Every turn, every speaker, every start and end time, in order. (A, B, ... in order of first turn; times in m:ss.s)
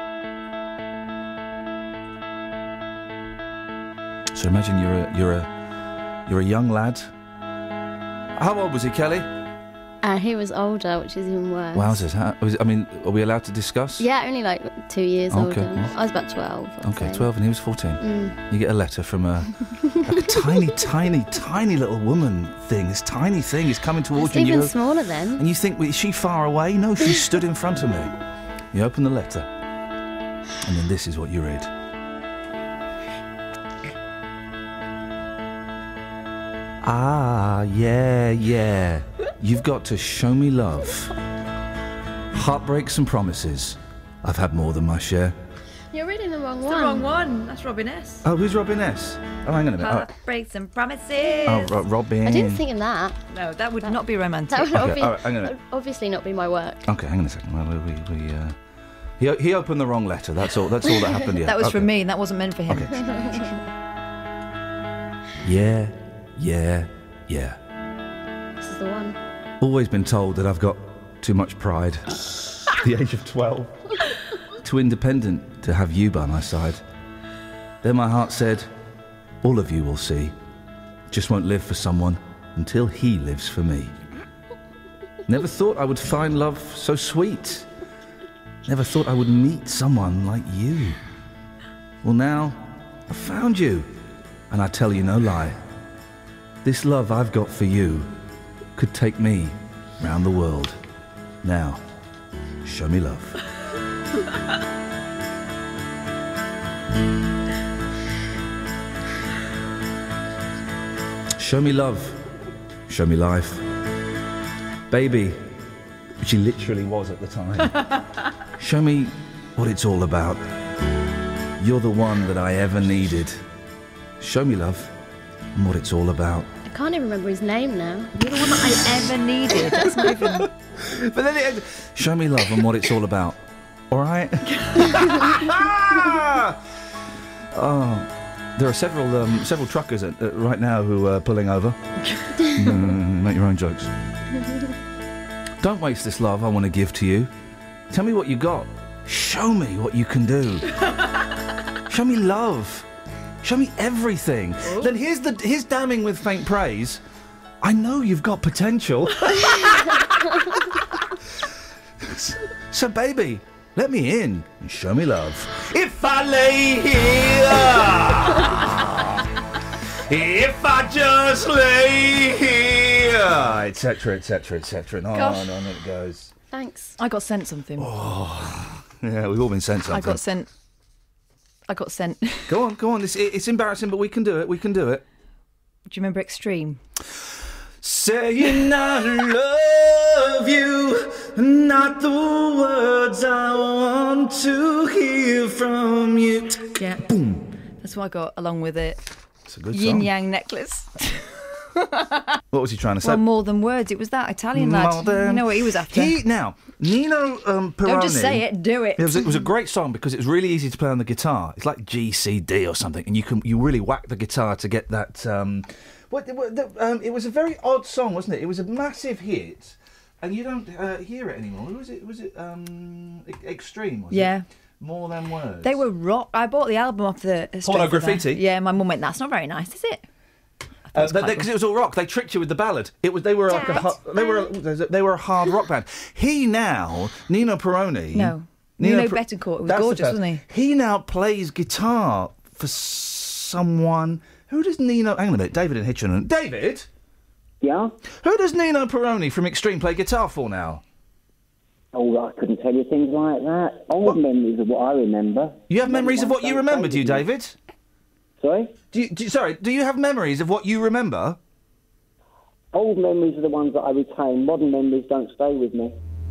0:04.3-0:05.5 A
0:06.3-0:07.1 A
0:08.4-0:09.3 A
0:10.0-0:12.0 B
0:11.7-0:14.1 A
0:14.0-0:17.3 B
0:15.3-0:15.9 A
0:16.8-0:24.8 A
0:18.0-0:18.4 B
0:24.1-0:25.4 B
0:25.4-0:28.1 A
0:28.7-0:29.5 A
0:30.6-0:31.7 A
0:36.8-0:41.1 A
0:42.3-0:45.4 A
0:45.9-0:47.1 B
0:46.6-0:48.2 C
0:48.2-0:50.1 A
0:49.8-0:51.7 C
0:51.4-0:52.6 A
0:52.2-0:53.2 B
0:53.3-0:54.7 C
0:53.8-0:56.9 B
0:54.7-0:55.5 A
0:56.9-0:58.6 A
0:59.2-1:01.9 A
1:01.4-1:02.9 C
1:02.7-1:02.9 A
1:03.0-1:03.6 B
1:05.4-1:07.6 A
1:08.6-1:09.2 B
1:09.6-1:13.8 A
1:14.6-1:16.8 A
1:17.8-1:18.7 A
1:19.4-1:20.4 A
1:21.1-1:23.9 A
1:25.3-1:27.7 A
1:28.7-1:31.0 A
1:32.0-1:33.9 A
1:34.5-1:35.6 A
1:36.6-1:38.1 A
1:38.8-1:40.8 A
1:41.4-1:41.8 A
1:42.6-1:43.4 A
1:51.4-1:52.2 A
1:52.9-1:53.6 A
1:54.9-1:55.4 A
1:56.2-1:57.8 A
1:58.6-2:00.4 A
2:01.6-2:03.4 A
2:04.2-2:04.9 A
2:05.6-2:06.5 A
2:06.7-2:08.6 B
2:08.2-2:10.5 C
2:10.8-2:13.4 A
2:13.9-2:16.6 A
2:17.5-2:21.8 A
2:22.4-2:23.9 A
2:25.6-2:27.3 A
2:27.9-2:30.7 A
2:31.9-2:32.9 A
2:33.4-2:37.0 A
2:37.6-2:39.7 A
2:42.0-2:49.3 A
2:49.9-2:56.3 A
2:55.1-2:55.5 C
2:56.5-2:57.0 B
2:57.0-2:57.9 C
2:57.8-3:00.2 A
2:59.9-3:00.5 C
3:01.7-3:02.6 C
3:02.5-3:05.0 A
3:05.9-3:06.8 C
3:07.8-3:17.4 A
3:16.8-3:17.0 C
3:17.8-3:19.0 C
3:19.5-3:20.1 A
3:19.7-3:21.4 C
3:22.0-3:22.2 C
3:22.5-3:23.2 A
3:23.0-3:26.2 C
3:24.5-3:28.4 A
3:27.8-3:29.4 C
3:29.0-3:45.8 A
3:44.1-3:44.4 C
3:45.6-3:50.0 C
3:47.6-3:48.4 A
3:50.9-3:51.5 C
3:51.0-4:06.9 A
3:58.1-4:00.4 C
4:07.6-4:07.9 D
4:08.2-4:10.8 A
4:11.9-4:17.2 D
4:15.7-4:17.6 A
4:18.4-4:18.7 D
4:18.9-4:21.4 A
4:22.7-4:25.9 D